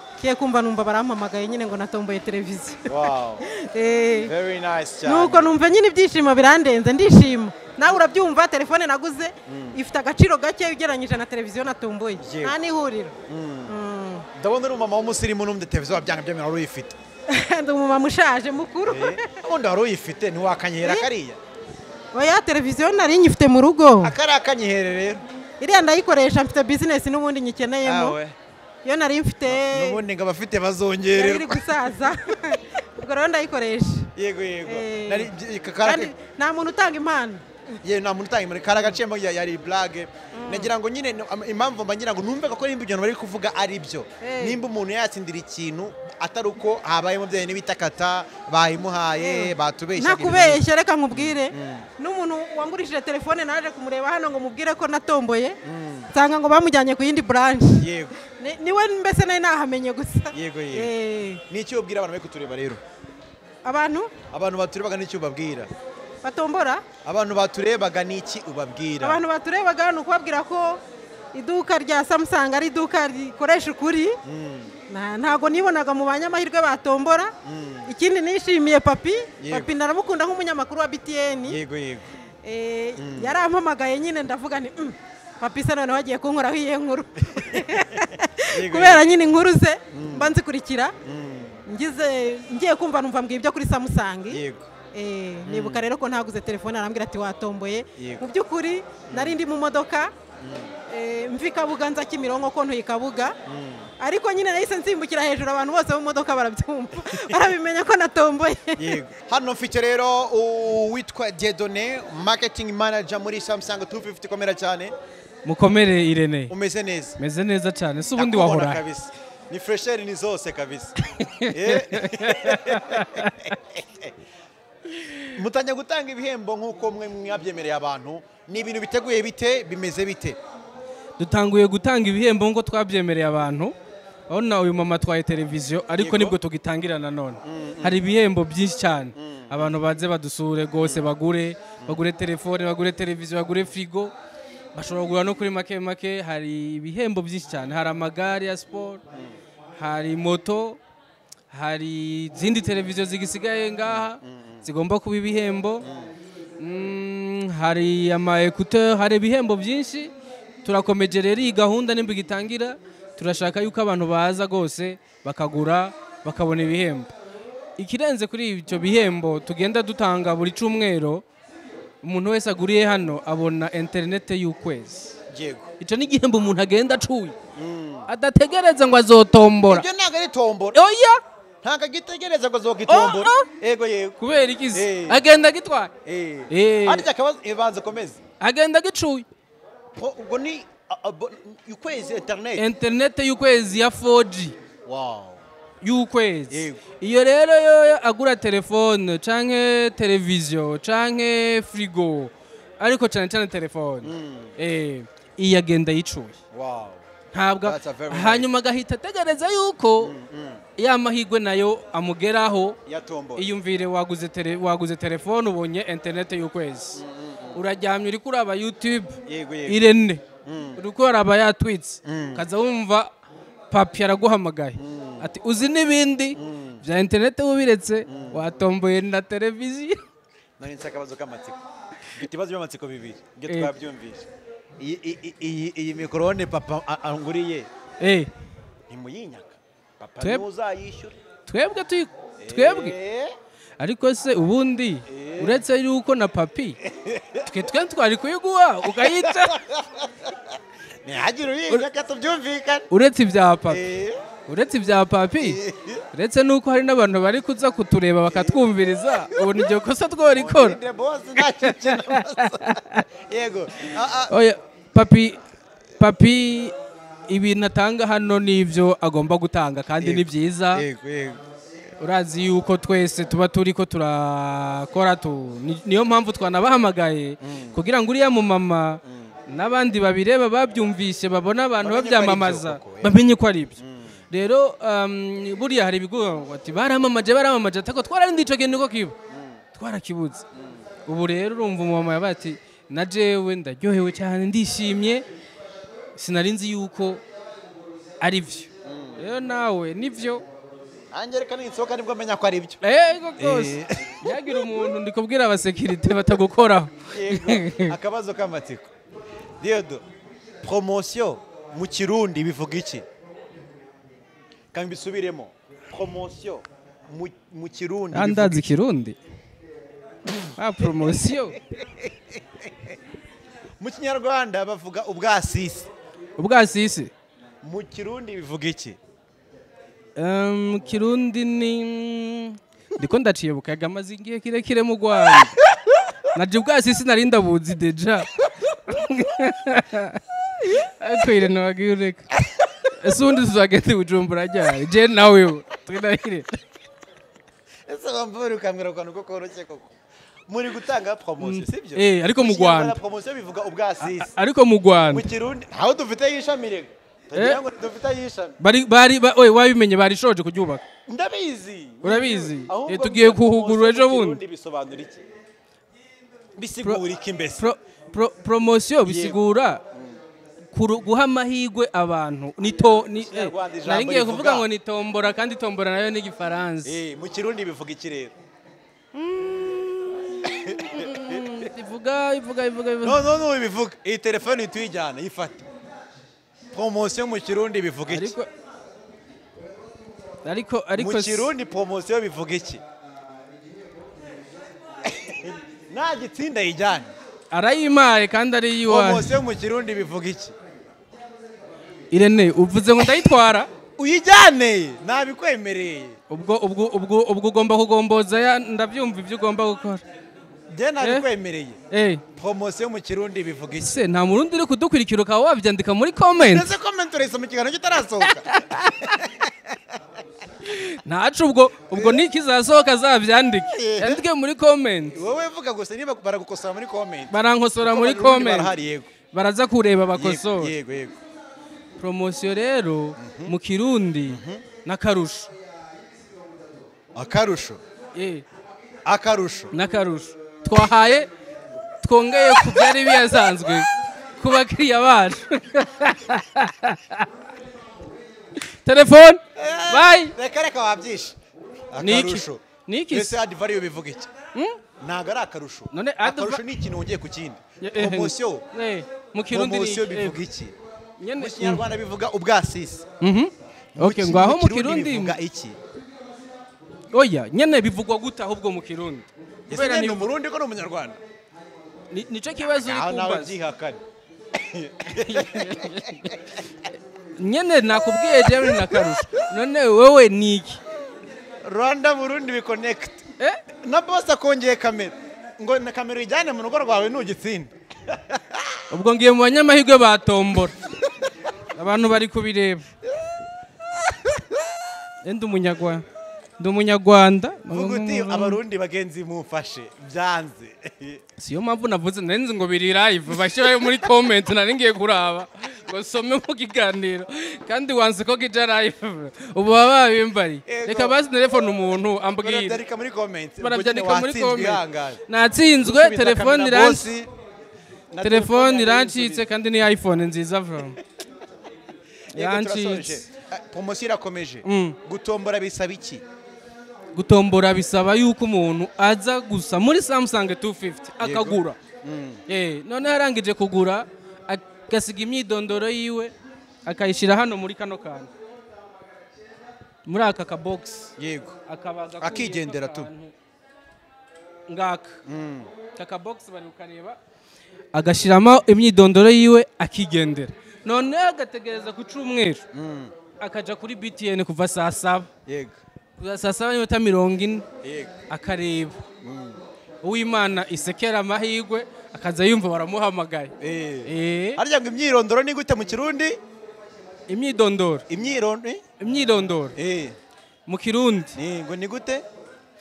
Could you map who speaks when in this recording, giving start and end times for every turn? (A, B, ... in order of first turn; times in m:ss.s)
0:00.2-0:02.9 A
0:02.9-0:03.5 B
0:03.4-0:04.3 A
0:04.2-0:05.6 B
0:05.0-0:13.1 A
0:09.5-0:09.8 B
0:12.2-0:12.6 B
0:13.3-0:13.7 B
0:13.7-0:14.3 A
0:14.3-0:17.0 B
0:17.3-0:19.2 A
0:18.9-0:21.4 B
0:22.1-0:24.1 A
0:24.0-0:25.2 B
0:25.6-0:28.2 A
0:27.8-0:28.3 B
0:28.8-0:30.0 A
0:29.5-0:31.7 B
0:31.1-0:34.1 A
0:34.2-0:36.1 B
0:34.6-0:35.3 A
0:35.8-0:37.8 A
0:37.8-0:51.9 B
0:40.3-0:40.7 A
0:44.2-0:44.6 A
0:49.2-0:55.6 A
0:55.6-0:56.1 B
0:56.1-0:57.9 A
0:57.8-0:58.2 B
0:58.4-1:01.4 A
1:00.3-1:00.9 B
1:01.5-1:02.8 B
1:03.6-1:04.1 A
1:04.3-1:05.7 B
1:06.2-1:06.8 A
1:07.0-1:09.2 B
1:09.0-1:10.8 A
1:11.3-1:14.2 A
1:14.2-1:14.7 B
1:14.9-1:17.3 A
1:17.4-1:17.9 B
1:17.9-1:21.6 A
1:19.4-1:19.7 B
1:21.5-1:22.1 B
1:22.4-1:30.9 A
1:23.0-1:23.4 B
1:27.4-1:27.8 B
1:28.5-1:29.0 B
1:29.9-1:30.3 B
1:31.0-1:31.6 B
1:31.7-1:34.4 A
1:34.3-1:34.6 B
1:34.9-1:40.1 A
1:35.4-1:35.9 B
1:38.0-1:38.3 B
1:39.1-1:39.4 B
1:40.4-1:40.7 B
1:40.9-1:43.4 A
1:43.4-1:43.9 B
1:44.0-1:49.0 A
1:47.1-1:47.4 B
1:48.8-1:54.9 B
1:55.4-1:56.5 C
1:56.5-1:57.2 B
1:57.2-1:58.8 C
1:58.2-2:04.1 B
2:01.2-2:03.5 C
2:05.3-2:10.4 B
2:11.2-2:13.7 C
2:14.3-2:24.1 C
2:16.0-2:16.4 B
2:17.4-2:18.0 B
2:19.2-2:19.7 B
2:24.7-2:29.0 C
2:29.8-2:30.8 C
2:31.5-2:35.8 C
2:33.9-2:34.6 B
2:35.8-2:36.1 B
2:36.6-2:40.1 C
2:40.6-2:47.1 C
2:47.8-2:51.2 C
2:52.0-2:55.1 C
2:55.3-2:55.7 B
2:55.8-2:57.3 C
2:57.6-2:58.1 B
2:58.1-2:59.8 C
2:59.7-3:00.8 B
3:00.7-3:01.2 C
3:01.6-3:04.2 B
3:02.9-3:03.4 C
3:04.2-3:05.9 C
3:04.7-3:05.2 B
3:06.0-3:08.2 B
3:06.5-3:07.1 C
3:08.4-3:09.2 C
3:10.0-3:12.6 B
3:12.6-3:14.6 C
3:14.8-3:15.4 B
3:15.8-3:26.4 C
3:16.5-3:16.8 B
3:24.0-3:24.5 B
3:26.5-3:27.0 B
3:27.3-3:30.1 C
3:27.6-3:28.5 B
3:30.0-3:30.6 B
3:30.8-3:32.8 C
3:32.9-3:33.5 B
3:33.4-3:37.0 C
3:37.0-3:37.6 B
3:37.5-3:40.2 C
3:39.3-3:39.9 B
3:40.4-3:40.8 B
3:40.8-3:43.1 C
3:42.0-3:42.4 B
3:43.7-3:50.0 C
3:44.8-3:45.3 B
3:46.4-3:46.8 B
3:48.1-3:48.4 B
3:50.6-3:51.6 B
3:52.2-3:54.3 B
3:54.8-3:57.7 B
3:58.0-3:58.3 C
3:58.9-4:01.2 B
4:01.5-4:03.0 C
4:02.4-4:03.3 B
4:03.8-4:06.8 C
4:05.1-4:05.6 B
4:06.8-4:07.6 B
4:07.4-4:09.6 C
4:09.0-4:12.8 B
4:12.9-4:13.8 C
4:13.7-4:14.2 B
4:14.5-4:15.6 C
4:15.4-4:16.0 B
4:16.1-4:20.8 C
4:18.3-4:18.6 B
4:20.3-4:24.3 B
4:21.4-4:23.0 C
4:24.3-4:25.4 C
4:26.0-4:26.7 C
4:27.3-4:30.8 C
4:30.0-4:31.4 B
4:32.0-4:43.7 C
4:37.4-4:37.8 B
4:39.1-4:39.3 B
4:41.8-4:43.2 B
4:43.8-4:44.1 B
4:44.3-4:49.1 C
4:49.3-4:49.6 B
4:49.8-4:50.4 C
4:50.6-4:50.8 B
4:51.0-4:55.2 C
4:56.2-4:57.2 C
4:58.2-5:00.4 C
4:58.8-4:59.2 B
5:01.1-5:02.8 B
5:02.8-5:07.9 C
5:03.4-5:04.4 B
5:07.1-5:08.9 B
5:09.6-5:10.0 B
5:10.6-5:13.0 B
5:14.7-5:18.6 B
5:18.1-5:19.2 C
5:20.3-5:23.0 B
5:20.4-5:21.6 C
5:23.8-5:25.9 B
5:26.4-5:27.1 C
5:27.6-5:29.0 B
5:30.2-5:35.5 C
5:36.3-5:42.3 C
5:42.9-5:46.6 C
5:47.9-5:49.9 B
5:50.5-5:54.3 B
5:51.4-5:53.0 C
5:54.0-5:55.3 C
5:55.1-5:58.6 B
5:57.4-5:57.6 C
5:58.6-6:00.8 C
6:01.1-6:05.2 B
6:02.0-6:04.4 C
6:06.6-6:07.7 B
6:07.6-6:09.8 C
6:09.0-6:09.4 B
6:09.9-6:10.2 B
6:10.7-6:16.9 C
6:13.2-6:14.6 B
6:16.8-6:18.3 B
6:19.1-6:23.2 C
6:20.5-6:21.4 B
6:23.0-6:25.6 B
6:26.7-6:28.3 B
6:28.1-6:28.5 C
6:30.4-6:31.5 C
6:30.9-6:32.8 B
6:35.0-6:37.1 B
6:37.5-6:39.4 C
6:38.9-6:40.5 B
6:42.1-6:43.7 C
6:44.0-6:46.2 B
6:46.3-6:50.0 C
6:50.7-6:51.8 B
6:51.9-6:52.2 C
6:52.3-6:54.0 B
6:53.8-6:56.7 C
6:56.4-6:59.8 B
6:58.3-6:59.1 C
7:00.6-7:05.2 C
7:01.9-7:02.2 B
7:03.7-7:04.2 B
7:05.1-7:09.1 B
7:07.3-7:10.7 C
7:10.2-7:11.2 B
7:12.0-7:15.5 C
7:13.2-7:13.5 B
7:14.3-7:14.6 B
7:17.2-7:17.8 B
7:18.1-7:18.4 C
7:19.1-7:19.7 B
7:19.7-7:21.3 C
7:22.0-7:27.3 C
7:28.8-7:30.3 C
7:29.6-7:31.4 B
7:31.9-7:34.3 B
7:32.0-7:33.4 C
7:35.0-7:38.6 B
7:35.9-7:36.6 C
7:37.8-7:40.4 C
7:39.5-7:40.7 B
7:41.2-7:41.8 C
7:41.4-7:43.1 B
7:43.2-7:45.4 C
7:44.0-7:45.8 B
7:47.1-7:50.3 C
7:49.7-7:51.2 B
7:52.1-7:53.5 C
7:52.8-7:54.0 B
7:54.6-7:56.0 B
7:55.3-7:56.4 C
7:57.4-8:00.8 C
7:58.6-7:58.9 B
8:01.6-8:03.2 B
8:03.8-8:08.8 B
8:08.9-8:10.8 C
8:11.8-8:12.9 C
8:15.2-8:16.0 C
8:16.6-8:18.6 C
8:17.7-8:21.2 B
8:21.4-8:32.8 C
8:30.7-8:31.2 B
8:32.4-8:35.2 B
8:33.6-8:37.1 C
8:35.8-8:37.3 B
8:38.1-8:39.4 B
8:38.2-8:41.0 C
8:42.3-8:43.2 C
8:42.3-8:46.2 B
8:44.6-8:45.0 C
8:47.1-8:51.8 C
8:51.2-8:52.4 B
8:52.5-8:56.3 C
8:56.8-8:58.3 C
9:00.0-9:01.1 C
9:01.2-9:01.6 B
9:01.7-9:03.3 C
9:02.2-9:03.1 B
9:04.7-9:05.2 C
9:05.2-9:05.7 B
9:05.9-9:07.2 C
9:07.9-9:12.6 C
9:12.7-9:13.1 B
9:13.4-9:15.3 C
9:15.4-9:15.7 B
9:16.2-9:17.6 C
9:17.8-9:18.1 B
9:18.3-9:19.0 C
9:19.2-9:19.6 B
9:20.0-9:23.5 C
9:23.6-9:26.4 B
9:24.0-9:24.6 C
9:27.3-9:28.0 C
9:28.1-9:28.8 B
9:29.0-9:29.8 C
9:29.8-9:30.2 B
9:30.7-9:31.4 C
9:31.4-9:32.2 B